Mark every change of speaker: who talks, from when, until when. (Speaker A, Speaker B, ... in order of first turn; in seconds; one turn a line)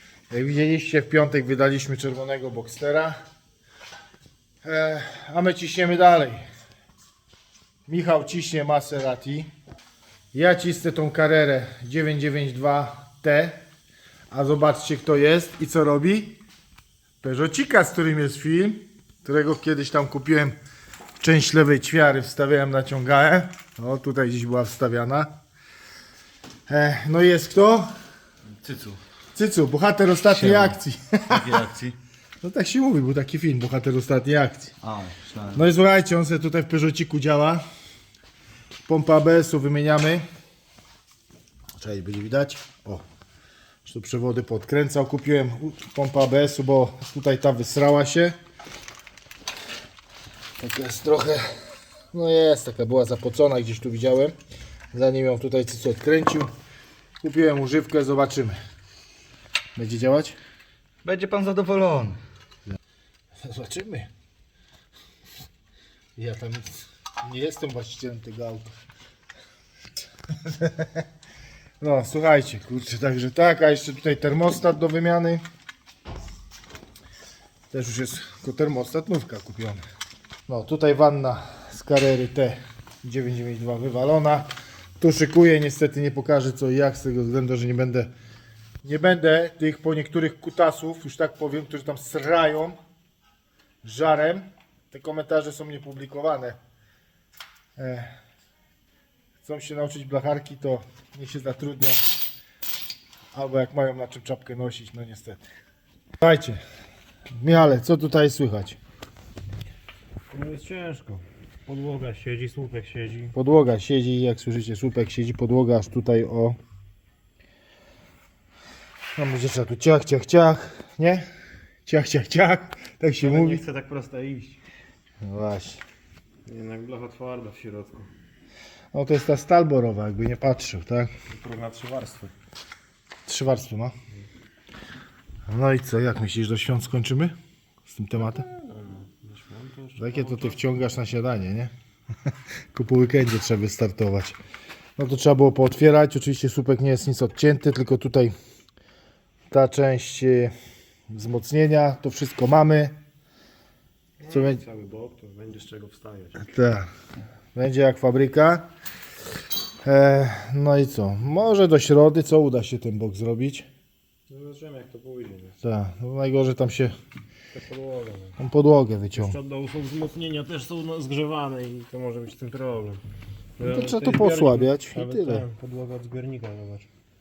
Speaker A: 0.3-3.1
Speaker A: 4.6-6.4
Speaker A: 7.9-9.5
Speaker A: 10.3-13.6
Speaker A: 14.3-16.4
Speaker A: 17.2-20.6
Speaker A: 21.2-25.3
Speaker A: 26.7-27.9
Speaker B: 28.6-29.0
Speaker A: 29.3-31.5
Speaker B: 30.3-32.0
Speaker A: 32.4-34.7
Speaker B: 34.8-35.7
Speaker A: 35.5-37.6
Speaker A: 38.8-40.2
Speaker A: 41.7-43.0
Speaker A: 43.8-48.4
Speaker A: 50.6-54.3
Speaker A: 54.9-56.5
Speaker A: 57.2-58.6
Speaker A: 59.8-60.4
Speaker B: 61.0-62.2
Speaker A: 63.4-64.1
Speaker A: 66.2-68.8
Speaker A: 70.4-71.0
Speaker A: 71.8-75.4
Speaker A: 77.7-79.8
Speaker A: 80.5-84.5
Speaker A: 85.0-88.1
Speaker A: 88.8-92.8
Speaker A: 93.8-96.6
Speaker A: 97.8-98.1
Speaker A: 99.4-102.0
Speaker A: 103.3-105.4
Speaker A: 106.2-106.6
Speaker A: 107.4-108.8
Speaker C: 110.3-113.3
Speaker A: 113.3-116.6
Speaker A: 119.1-121.3
Speaker A: 121.8-123.6
Speaker C: 123.2-124.6
Speaker A: 125.2-125.8
Speaker C: 126.5-128.1
Speaker A: 128.9-131.1
Speaker C: 131.3-132.3
Speaker A: 133.2-133.9
Speaker A: 135.5-137.3
Speaker A: 137.9-138.5
Speaker C: 138.4-140.6
Speaker A: 139.9-141.7
Speaker A: 142.7-144.4
Speaker A: 145.0-148.3
Speaker A: 149.5-150.5
Speaker A: 151.1-152.9
Speaker C: 154.2-156.4
Speaker A: 154.3-154.6
Speaker A: 156.4-156.9
Speaker A: 157.5-158.7
Speaker A: 159.8-163.7
Speaker C: 164.3-165.5
Speaker A: 165.6-166.9
Speaker C: 167.5-168.3
Speaker A: 168.4-169.4
Speaker C: 169.2-173.0
Speaker C: 173.6-176.9
Speaker A: 173.6-175.5